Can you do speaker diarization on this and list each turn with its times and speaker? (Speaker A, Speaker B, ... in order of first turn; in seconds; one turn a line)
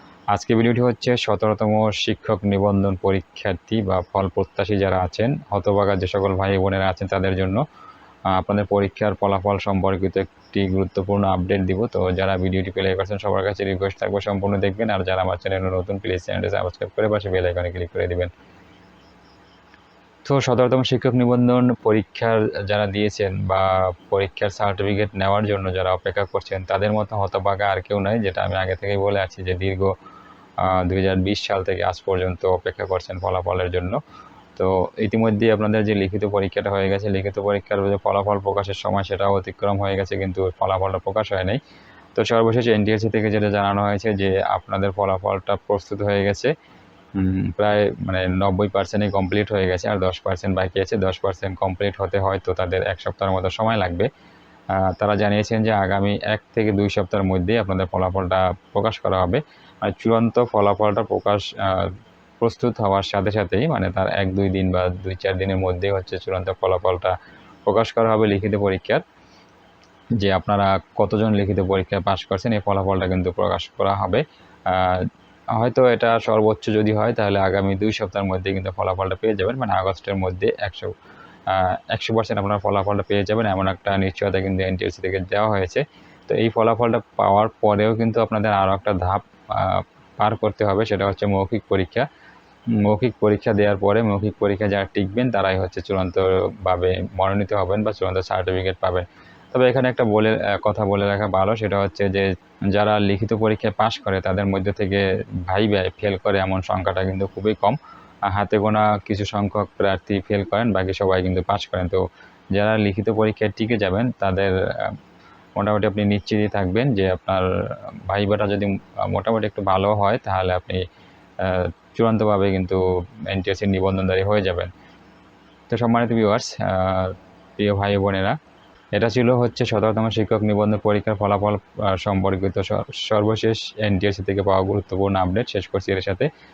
Speaker A: 0.3-7.6
Speaker A: 8.3-18.3
Speaker A: 20.3-29.9
Speaker A: 30.6-34.0
Speaker A: 34.6-41.6
Speaker A: 42.1-46.5
Speaker A: 47.1-54.1
Speaker A: 54.8-67.1
Speaker A: 67.7-69.0
Speaker A: 70.2-80.9
Speaker A: 81.5-92.1
Speaker A: 92.8-107.8
Speaker A: 108.3-112.0
Speaker A: 112.5-115.0
Speaker A: 115.6-117.5
Speaker A: 118.1-120.8
Speaker A: 121.4-124.7
Speaker A: 125.7-128.4
Speaker A: 128.9-136.3